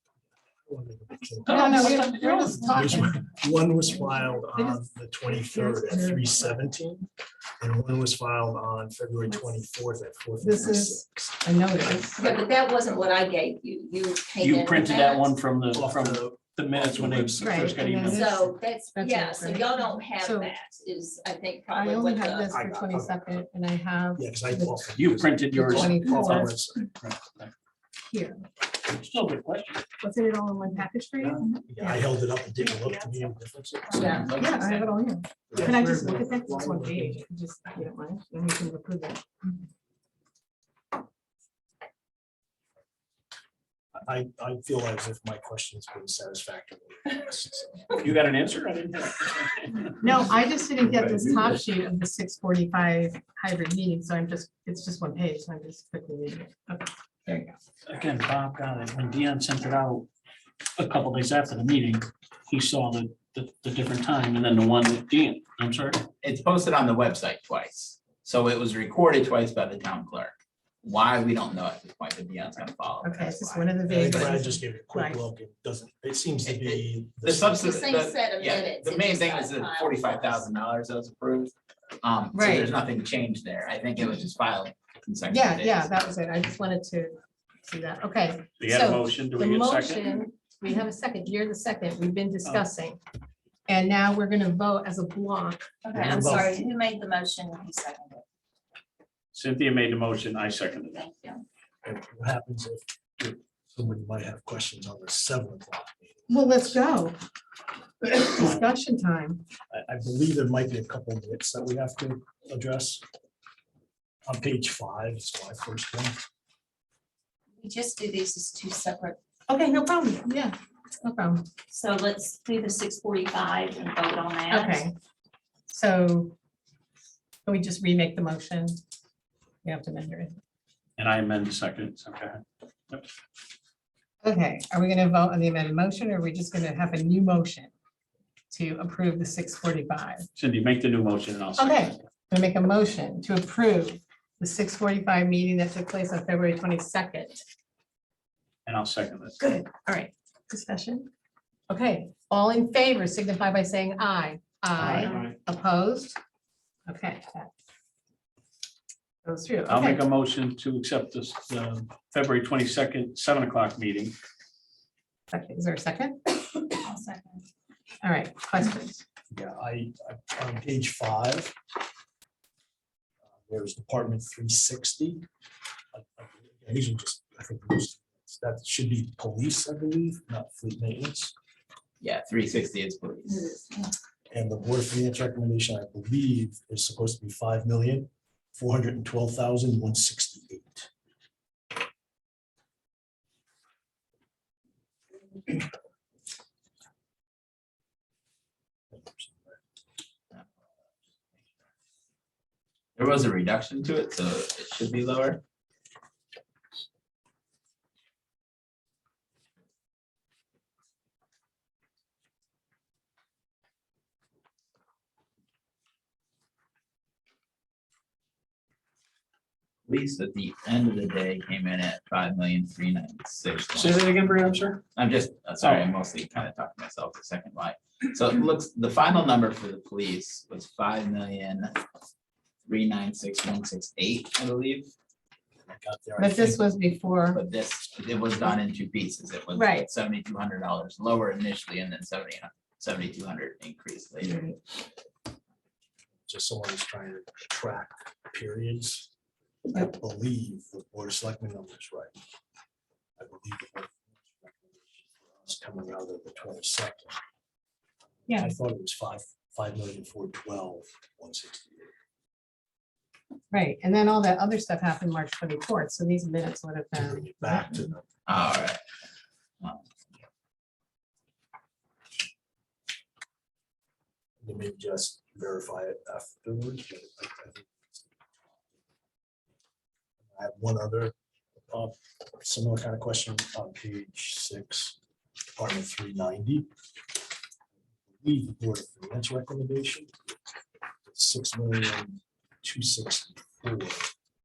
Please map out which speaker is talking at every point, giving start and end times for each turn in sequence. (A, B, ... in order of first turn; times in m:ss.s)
0:00.6-0:07.1 A
0:01.5-0:03.2 B
0:04.5-0:06.5 B
0:07.6-0:12.2 A
0:10.4-0:12.3 B
0:12.2-0:15.3 C
0:14.4-0:18.4 D
0:15.7-0:18.1 A
0:17.4-0:18.3 B
0:18.0-0:22.5 C
0:19.0-0:20.5 B
0:21.7-0:26.5 B
0:22.5-0:23.4 A
0:24.2-0:26.9 A
0:25.0-0:26.5 D
0:27.0-0:27.5 D
0:28.1-0:28.4 B
0:28.9-0:29.8 D
0:30.0-0:32.0 B
0:31.6-0:34.3 A
0:33.9-0:34.3 C
0:34.0-0:34.9 E
0:34.4-0:39.5 B
0:35.5-0:37.2 A
0:44.0-0:47.9 A
0:48.0-0:50.2 D
0:50.0-0:56.9 B
0:50.8-0:51.5 D
0:57.9-1:00.1 D
1:00.8-1:06.1 D
1:06.2-1:13.7 E
1:13.0-1:15.2 B
1:13.8-1:17.6 A
1:16.4-1:25.9 E
1:17.6-1:20.5 C
1:22.3-1:22.7 B
1:25.3-1:33.0 B
1:28.6-1:30.2 D
1:33.7-1:35.7 B
1:35.8-1:38.2 C
1:35.9-1:36.6 A
1:39.3-1:41.0 D
1:41.0-1:41.4 C
1:41.8-1:46.3 A
1:46.3-1:47.2 B
1:48.0-1:49.4 B
1:49.7-1:53.0 A
1:54.3-1:56.2 A
1:57.6-1:59.2 C
1:59.5-2:01.4 B
2:01.7-2:04.8 C
2:04.5-2:04.9 B
2:05.7-2:06.4 B
2:07.4-2:08.8 B
2:09.6-2:10.3 B
2:11.0-2:13.1 D
2:14.2-2:17.7 B
2:18.5-2:20.3 B
2:20.4-2:21.9 D
2:21.6-2:27.4 B
2:28.7-2:29.4 D
2:29.4-2:31.1 B
2:31.7-2:36.2 B
2:34.8-2:35.4 D
2:36.9-2:37.5 B
2:39.2-2:40.0 B
2:39.7-2:44.2 D
2:45.3-2:46.4 B
2:46.8-2:47.4 C
2:48.0-2:49.0 B
2:49.3-2:51.6 A
2:53.4-2:55.3 A
2:55.9-3:01.3 A
3:02.0-3:03.4 E
3:03.3-3:03.9 C
3:04.3-3:10.9 A
3:18.9-3:19.6 A
3:23.0-3:25.4 E
3:39.9-3:44.0 E
3:43.7-3:44.8 D
3:45.0-3:51.8 E
3:45.6-3:45.9 D
3:52.6-3:54.9 E
3:55.7-3:56.6 A
3:56.2-3:57.4 B
3:57.3-4:04.4 E
3:59.5-3:59.9 B
4:04.2-4:04.6 B
4:06.3-4:09.1 A
4:09.7-4:12.1 A
4:13.2-4:17.2 A
4:18.2-4:21.9 A
4:18.3-4:18.6 B
4:23.5-4:27.9 B
4:26.9-4:28.1 A
4:28.3-4:28.8 E
4:34.4-4:38.1 A
4:40.2-4:41.2 A
4:41.7-4:45.0 A
4:45.6-4:46.7 A
4:48.1-4:50.1 A
4:51.1-4:54.1 A